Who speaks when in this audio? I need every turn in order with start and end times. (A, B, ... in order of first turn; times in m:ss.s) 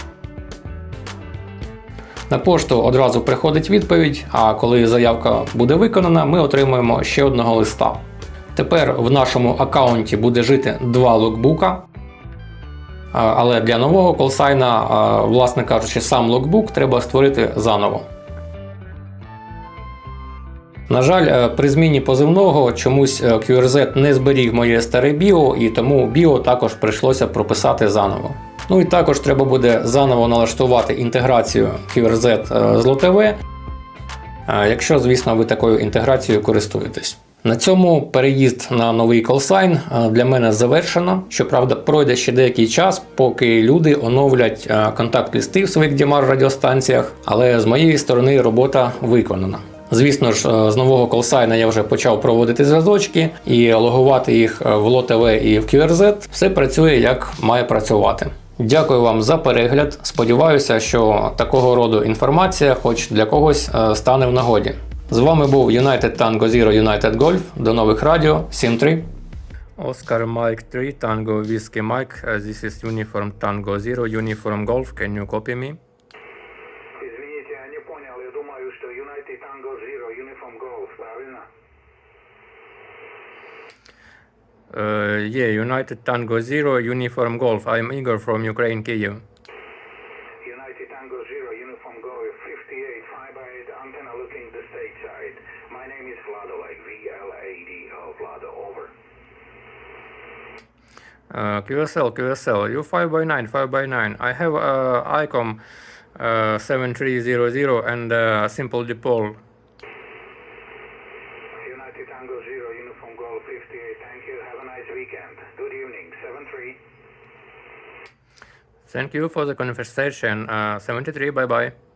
0:02.3-0:08.0 A
0:08.5-0:11.8 A
0:13.1-0:18.0 A
0:20.9-0:33.4 A
0:34.5-1:09.0 A
1:09.8-1:15.8 A
1:16.9-1:21.5 B
1:24.7-1:29.2 A
1:30.4-1:38.9 B
1:41.3-1:45.6 A
1:46.2-1:49.4 A
1:51.6-1:56.8 B
1:58.9-2:01.7 A